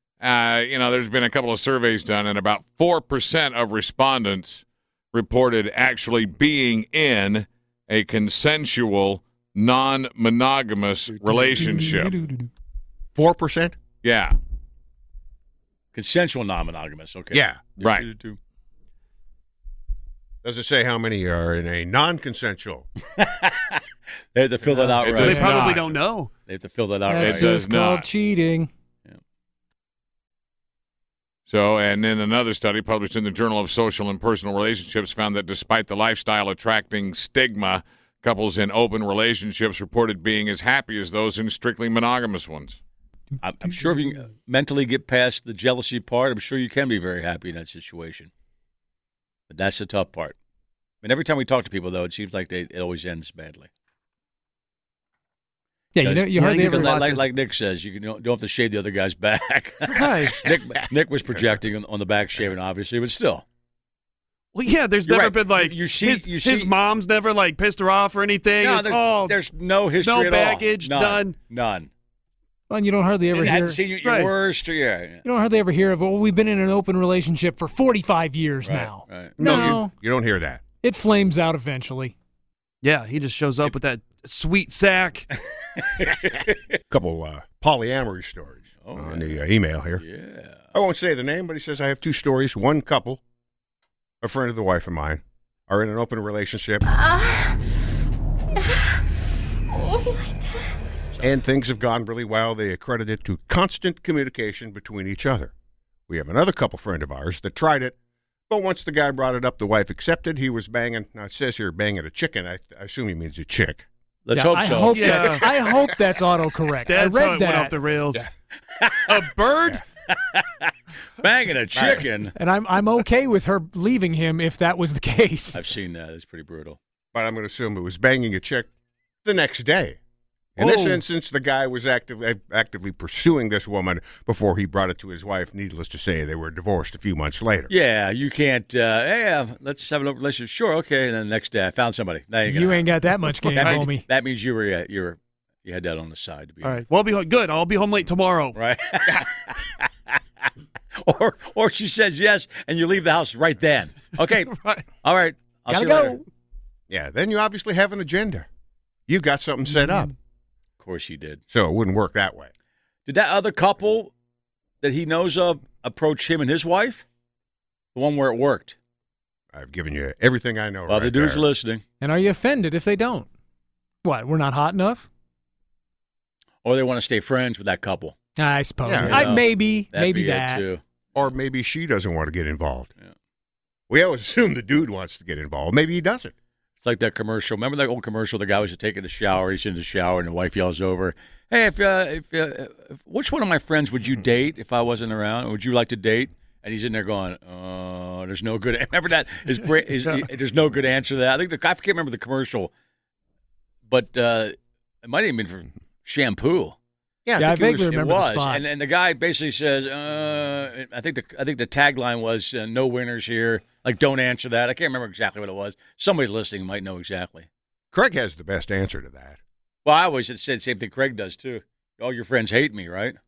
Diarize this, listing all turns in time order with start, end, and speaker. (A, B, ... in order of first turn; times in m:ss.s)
0:00.2-0:12.1 A
0:11.2-0:12.5 B
0:13.2-0:13.8 C
0:14.0-0:14.4 A
0:15.9-0:18.4 D
0:17.3-0:17.6 C
0:17.8-0:18.1 A
0:20.4-0:22.9 C
0:23.2-0:23.8 D
0:24.3-0:25.8 D
0:24.8-0:26.3 E
0:25.0-0:25.9 A
0:25.2-0:25.6 B
0:26.5-0:27.6 D
0:27.1-0:28.7 B
0:27.2-0:28.1 A
0:31.5-0:42.8 A
0:43.4-0:48.3 D
0:49.5-0:50.4 D
0:51.0-0:53.7 D
0:55.9-0:57.0 B
0:56.0-1:03.4 D
0:56.4-0:57.2 E
0:59.9-1:00.4 E
1:04.5-1:09.4 E
1:05.0-1:06.7 D
1:08.6-1:11.9 D
1:10.0-1:11.4 E
1:12.7-1:13.8 B
1:13.3-1:15.2 D
1:14.0-1:14.3 E
1:15.2-1:19.9 B
1:18.6-1:19.7 D
1:19.4-1:19.8 E
1:19.4-1:20.6 C
1:20.8-1:22.1 B
1:22.8-1:25.2 E
1:25.8-1:26.6 D
1:26.9-1:30.0 C
1:28.8-1:29.4 D
1:30.0-1:30.7 D
1:30.7-1:33.2 C
1:34.2-1:37.0 C
1:41.2-1:45.5 C
1:46.1-1:48.0 C
1:48.5-1:53.8 C
1:54.2-1:55.8 D
1:54.3-1:57.7 B
1:54.9-1:55.5 E
1:56.9-1:58.3 E
1:58.8-1:59.3 D
1:59.1-1:59.8 E
2:00.3-2:00.7 D
2:01.2-2:02.3 D
2:01.7-2:02.1 C
2:02.4-2:05.6 B
2:05.5-2:06.8 D
2:07.1-2:08.7 C
2:09.2-2:10.0 C
2:10.6-2:17.7 C
2:10.6-2:11.0 E
2:17.7-2:26.8 D
2:22.4-2:24.0 B
2:23.6-2:23.9 E
2:26.6-2:28.6 E
2:28.5-2:29.7 D
2:31.0-2:36.2 D
2:34.5-2:34.8 E
2:35.7-2:36.2 B
2:36.9-2:38.5 C
2:39.1-2:40.1 C
2:40.8-2:41.4 D
2:41.5-2:42.5 C
2:43.1-2:44.1 D
2:44.8-2:47.0 D
2:47.9-2:48.7 D
2:49.5-2:51.5 C
2:50.9-2:51.8 D
2:52.0-2:53.3 B
2:54.0-2:55.1 B
2:56.6-2:58.2 D
2:58.4-3:00.7 B
2:58.8-2:59.2 C
2:58.9-3:01.3 D
3:01.1-3:02.9 C
3:03.9-3:06.3 C
3:06.8-3:22.7 D
3:23.9-3:26.8 D
3:27.2-3:27.9 C
3:27.4-3:28.6 B
3:27.9-3:37.5 D
3:37.9-3:39.4 C
3:39.8-3:43.2 D